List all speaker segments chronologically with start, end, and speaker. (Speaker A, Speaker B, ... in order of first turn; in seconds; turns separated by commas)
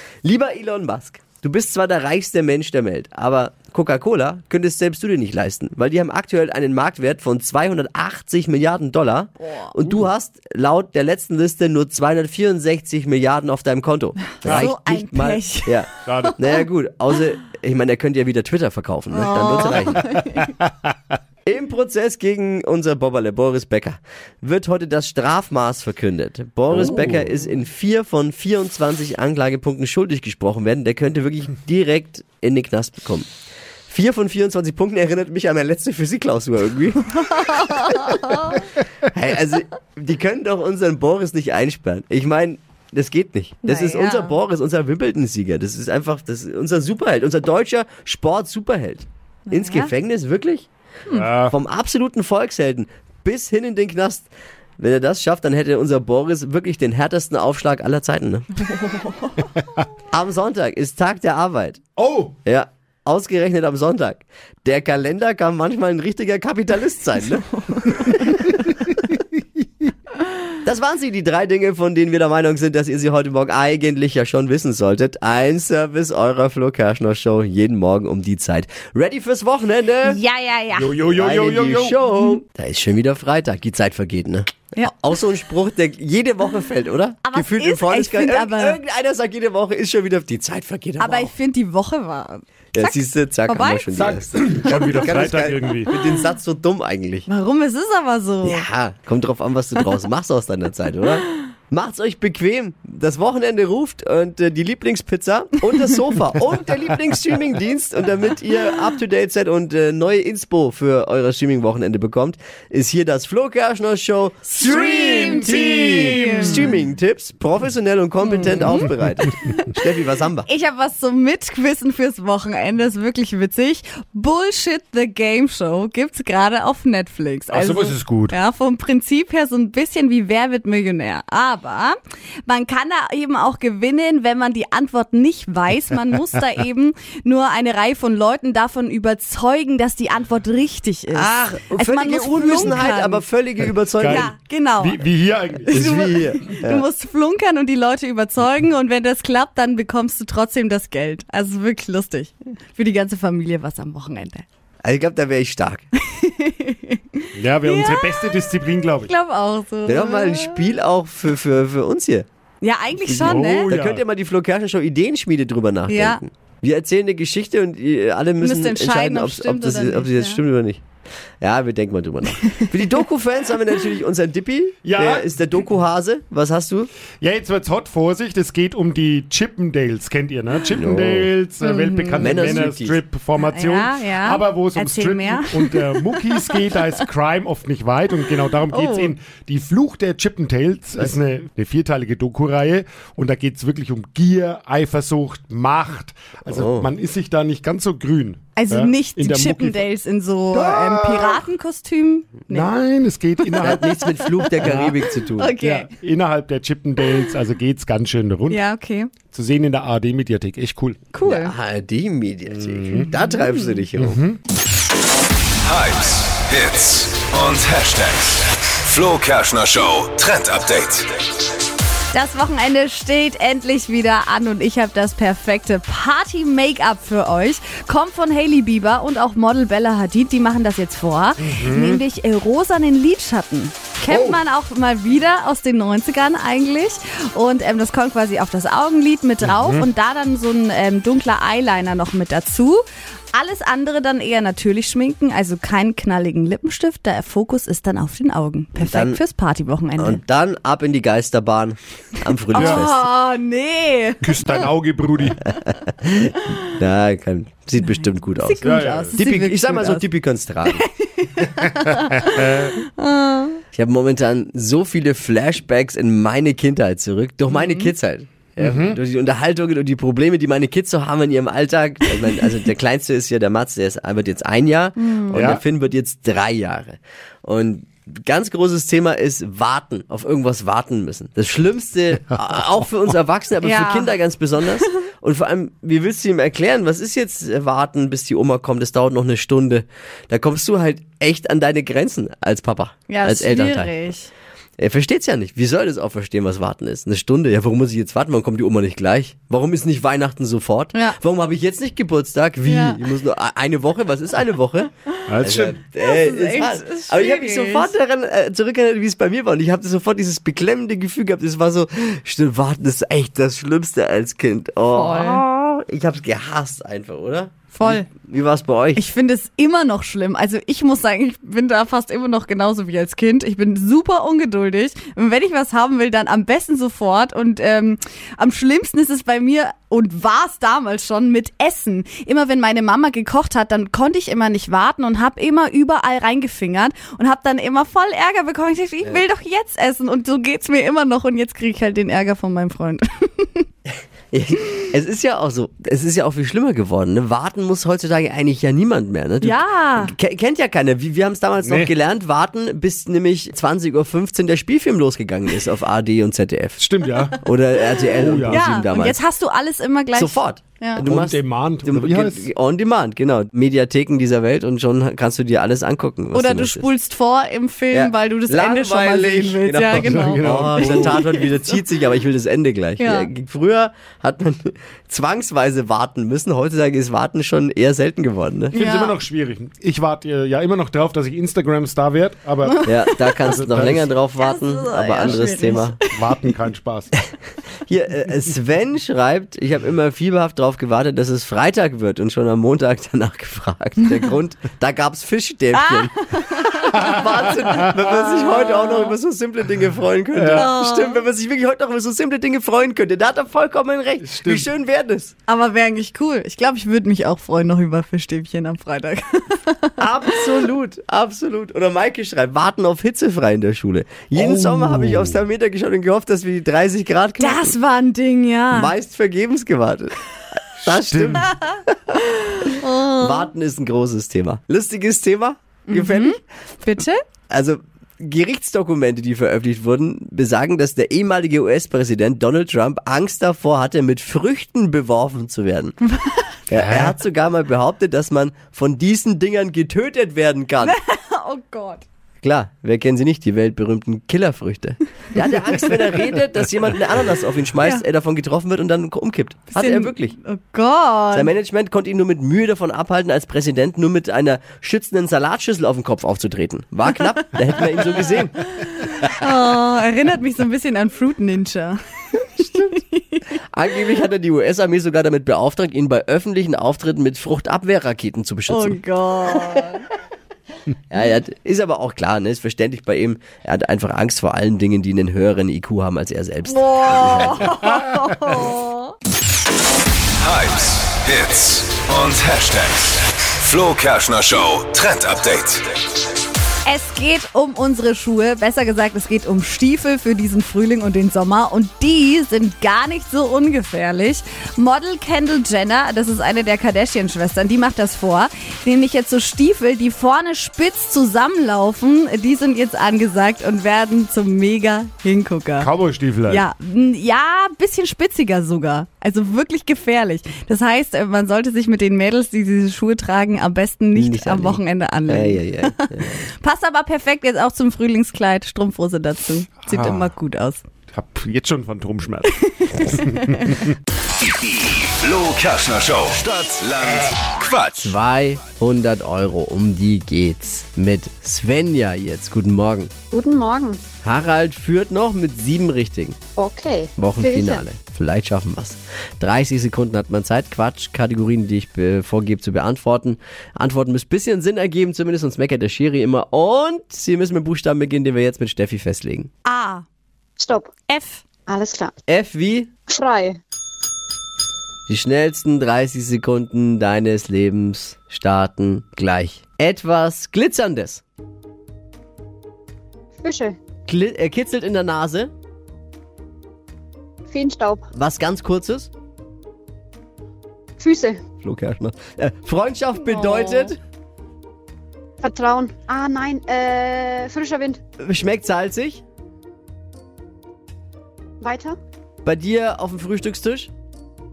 Speaker A: 0.2-20.1, Speaker B: 9.4-9.7, Speaker C: 14.4-14.7, Speaker B: 14.4-16.6, Speaker C: 16.0-16.4, Speaker B: 19.1-20.6, Speaker A: 21.4-33.3, Speaker C: 26.7-27.3, Speaker A: 33.9-38.1, Speaker B: 37.2-38.6, Speaker A: 39.1-50.7, Speaker B: 43.6-44.3, Speaker B: 49.5-49.9, Speaker C: 51.1-51.5, Speaker A: 51.4-58.5, Speaker B: 58.8-59.6, Speaker A: 60.1-61.8, Speaker C: 62.0-62.4, Speaker A: 62.4-67.5, Speaker B: 67.7-68.6, Speaker A: 70.6-80.2, Speaker B: 80.0-80.9, Speaker C: 80.8-82.1, Speaker A: 81.0-91.3, Speaker B: 87.2-88.8, Speaker B: 91.0-93.9, Speaker A: 92.7-94.4, Speaker C: 93.9-95.9, Speaker B: 94.6-95.1, Speaker A: 95.0-97.3, Speaker B: 95.9-96.2, Speaker B: 97.3-98.7, Speaker A: 98.4-120.5, Speaker C: 114.8-116.4, Speaker B: 115.0-116.7, Speaker B: 118.2-119.7, Speaker B: 120.4-131.9, Speaker C: 127.5-128.3, Speaker B: 132.4-143.2, Speaker A: 141.1-144.3, Speaker C: 144.0-145.8, Speaker B: 144.0-145.0, Speaker B: 145.7-154.4, Speaker A: 145.7-146.9, Speaker A: 154.8-155.8, Speaker B: 156.1-160.7, Speaker C: 157.3-159.1, Speaker A: 159.8-162.3, Speaker B: 162.6-163.7, Speaker A: 163.1-170.8, Speaker C: 163.1-164.0, Speaker B: 165.9-166.2, Speaker B: 168.4-170.4, Speaker A: 171.4-176.9, Speaker B: 172.4-172.7, Speaker C: 174.8-175.3, Speaker C: 177.2-199.8, Speaker A: 180.7-181.3, Speaker B: 181.6-182.6, Speaker A: 182.2-183.0, Speaker B: 183.4-187.0, Speaker B: 188.7-189.1, Speaker A: 196.4-196.9, Speaker B: 198.6-202.7, Speaker C: 200.5-201.4, Speaker C: 202.5-203.8, Speaker B: 203.4-205.9, Speaker A: 203.6-205.5, Speaker C: 204.6-204.9, Speaker C: 205.6-208.6, Speaker B: 208.5-209.1, Speaker C: 209.2-211.0, Speaker B: 211.1-211.5, Speaker A: 211.2-214.2, Speaker C: 212.5-213.0, Speaker B: 212.9-213.8, Speaker C: 214.0-214.4, Speaker D: 215.6-221.1, Speaker B: 222.1-242.8, Speaker C: 231.4-232.0, Speaker C: 234.1-234.4, Speaker C: 239.4-239.9, Speaker B: 243.3-250.2, Speaker A: 248.8-249.2, Speaker A: 250.0-253.1, Speaker B: 252.5-254.7, Speaker C: 252.5-252.8, Speaker C: 254.2-255.4, Speaker A: 256.0-260.8, Speaker B: 257.8-260.1, Speaker C: 258.6-259.1, Speaker B: 260.7-263.6, Speaker C: 262.2-262.8, Speaker A: 263.7-293.9, Speaker B: 267.5-267.9, Speaker C: 268.6-269.0, Speaker B: 275.0-275.4, Speaker C: 275.3-275.6, Speaker B: 283.6-285.0, Speaker B: 293.1-294.3, Speaker A: 294.8-304.9, Speaker B: 302.6-303.1, Speaker C: 305.3-305.8, Speaker A: 305.4-319.0, Speaker B: 306.0-307.9, Speaker B: 314.9-315.4, Speaker B: 317.7-318.1, Speaker B: 318.9-343.6, Speaker A: 344.3-356.8, Speaker B: 349.4-350.1, Speaker C: 351.6-351.9, Speaker C: 356.8-357.4, Speaker A: 357.4-359.2, Speaker B: 357.9-361.0, Speaker C: 358.1-358.6, Speaker A: 360.1-366.9, Speaker C: 361.0-362.5, Speaker B: 366.3-371.8, Speaker A: 367.9-378.7, Speaker C: 369.9-371.2, Speaker B: 373.0-373.3, Speaker B: 378.7-379.2, Speaker C: 378.7-382.9, Speaker B: 382.6-383.3, Speaker A: 382.9-386.0, Speaker C: 383.4-384.1, Speaker B: 384.4-386.3, Speaker C: 385.2-387.1, Speaker A: 387.9-405.3, Speaker B: 395.8-397.5, Speaker C: 400.4-400.7, Speaker B: 400.5-401.2, Speaker C: 404.2-404.6, Speaker B: 405.5-410.4, Speaker A: 410.0-417.8, Speaker C: 414.3-415.4, Speaker B: 417.4-418.9, Speaker A: 418.7-420.1, Speaker C: 420.8-421.5, Speaker A: 420.8-426.4, Speaker B: 422.5-423.5, Speaker B: 425.9-427.2, Speaker A: 427.5-436.0, Speaker B: 436.1-436.6, Speaker A: 436.7-441.0, Speaker C: 436.7-437.1, Speaker B: 440.8-442.0, Speaker A: 442.4-450.4, Speaker B: 449.7-451.5, Speaker A: 451.3-459.3, Speaker B: 458.8-463.4, Speaker A: 462.6-462.9, Speaker A: 463.7-469.6, Speaker B: 468.7-470.1, Speaker A: 471.1-477.8, Speaker B: 476.7-479.1, Speaker D: 480.4-485.9, Speaker B: 486.8-505.9, Speaker C: 505.8-506.6, Speaker B: 506.5-520.8, Speaker A: 514.1-516.4, Speaker C: 519.9-520.3, Speaker C: 521.1-523.9, Speaker B: 522.6-523.8, Speaker D: 524.4-528.1, Speaker A: 528.0-533.1, Speaker E: 533.3-534.0, Speaker A: 534.2-536.4, Speaker E: 536.6-537.8, Speaker A: 537.2-549.5, Speaker B: 549.6-550.0, Speaker E: 550.6-550.9, Speaker B: 551.1-551.4, Speaker E: 551.7-552.1, Speaker A: 552.3-552.9, Speaker E: 553.1-553.6, Speaker A: 555.1-561.2, Speaker E: 563.4-563.8, Speaker A: 564.0-565.5, Speaker E: 567.5-568.0, Speaker A: 568.1-569.1, Speaker E: 571.0-571.4, Speaker A: 571.6-574.0, Speaker E: 575.4-578.0, Speaker A: 578.2-579.2, Speaker E: 581.6-582.0, Speaker A: 582.4-583.9